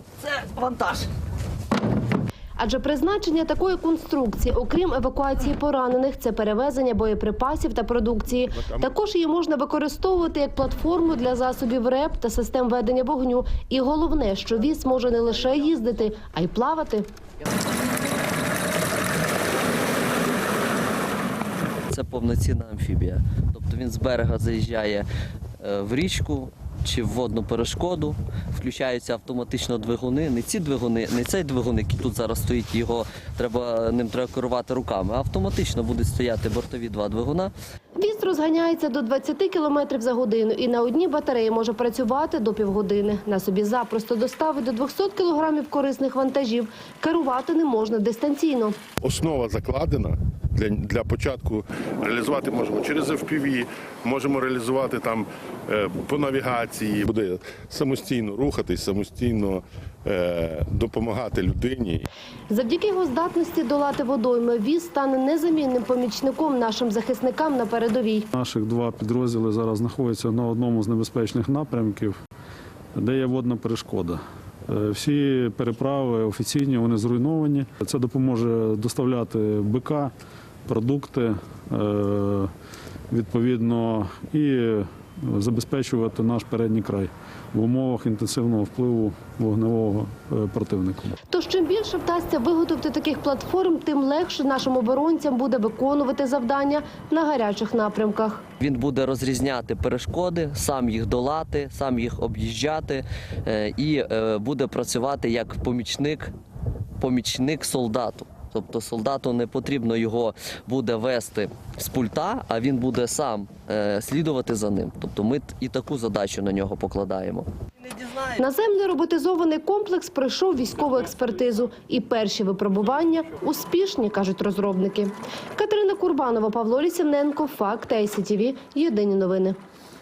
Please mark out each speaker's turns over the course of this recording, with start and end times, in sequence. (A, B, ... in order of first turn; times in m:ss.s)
0:00.6-0:00.8 A
0:02.6-0:17.0 B
0:21.9-0:25.1 A
0:25.6-0:37.5 A
0:38.0-0:48.8 B
0:49.0-1:02.1 C
1:02.5-1:08.3 B
1:08.3-1:12.1 D
1:12.9-1:20.1 D
1:20.6-1:22.5 D
1:23.1-1:31.2 D
1:31.3-1:38.4 B
1:38.6-1:46.3 A
1:47.0-1:57.5 A
1:58.4-2:09.6 B